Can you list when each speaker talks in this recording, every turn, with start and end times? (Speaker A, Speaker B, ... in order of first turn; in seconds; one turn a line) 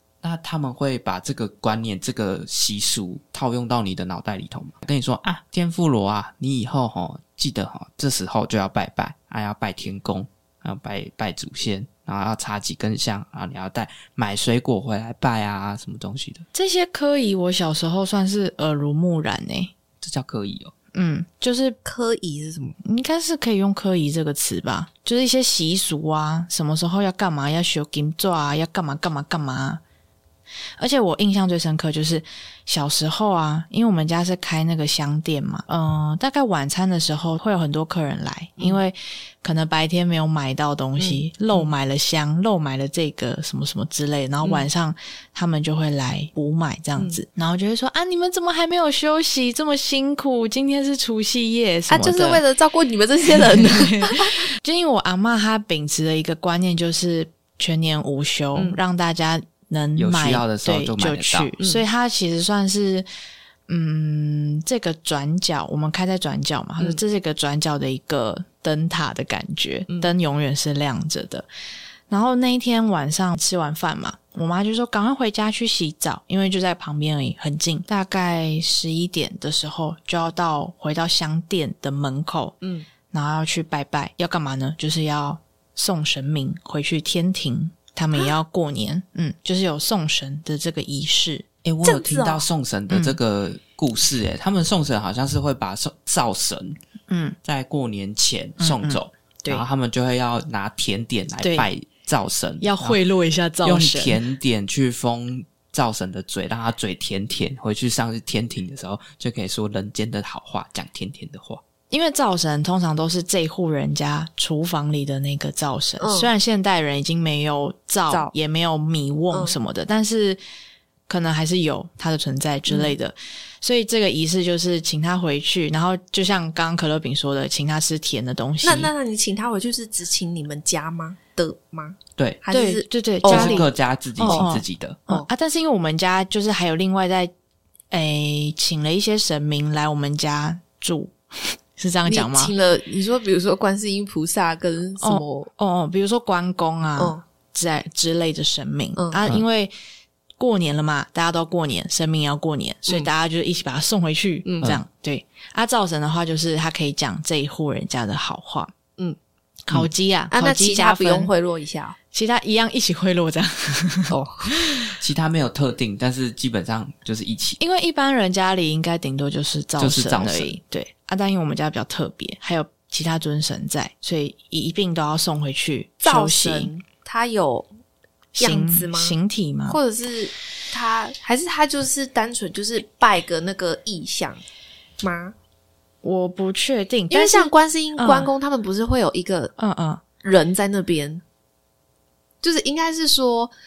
Speaker A: 0.2-16.4
Speaker B: 16.5-19.7
Speaker A: 20.0-20.7
Speaker B: 20.9-21.8
Speaker C: 21.8-22.8
Speaker B: 22.8-29.8
Speaker B: 30.8-52.4
Speaker C: 41.0-41.7
Speaker C: 44.4-44.7
Speaker C: 47.0-47.2
Speaker C: 51.9-54.4
Speaker B: 53.2-63.1
Speaker A: 60.0-61.5
Speaker C: 61.6-61.8
Speaker B: 63.7-71.5
Speaker B: 72.1-82.5
Speaker C: 82.6-82.9
Speaker B: 83.1-91.5
Speaker A: 91.6-96.8
Speaker C: 91.8-92.4
Speaker B: 92.9-93.2
Speaker B: 97.1-97.4
Speaker A: 97.4-103.0
Speaker B: 98.6-99.6
Speaker B: 101.4-101.7
Speaker B: 102.6-104.2
Speaker A: 103.6-111.6
Speaker B: 111.9-120.4
Speaker C: 116.0-116.3
Speaker B: 121.1-128.9
Speaker C: 122.7-123.0
Speaker C: 128.6-133.7
Speaker B: 132.5-133.7
Speaker A: 133.2-135.0
Speaker B: 134.2-137.3
Speaker C: 134.2-134.5
Speaker B: 137.9-142.5
Speaker C: 142.1-145.5
Speaker B: 145.0-149.7
Speaker C: 147.0-147.2
Speaker C: 148.9-149.2
Speaker B: 150.4-158.7
Speaker C: 154.4-154.8
Speaker B: 159.7-161.3
Speaker C: 160.3-161.9
Speaker B: 162.1-164.9
Speaker C: 164.1-164.5
Speaker A: 165.0-167.6
Speaker B: 167.6-176.7
Speaker A: 169.8-170.5
Speaker C: 176.0-177.7
Speaker B: 178.3-179.8
Speaker C: 178.4-179.1
Speaker C: 179.7-184.4
Speaker C: 185.0-185.3
Speaker B: 186.0-188.3
Speaker C: 187.1-189.5
Speaker B: 189.6-190.0
Speaker C: 190.2-191.2
Speaker C: 192.4-193.5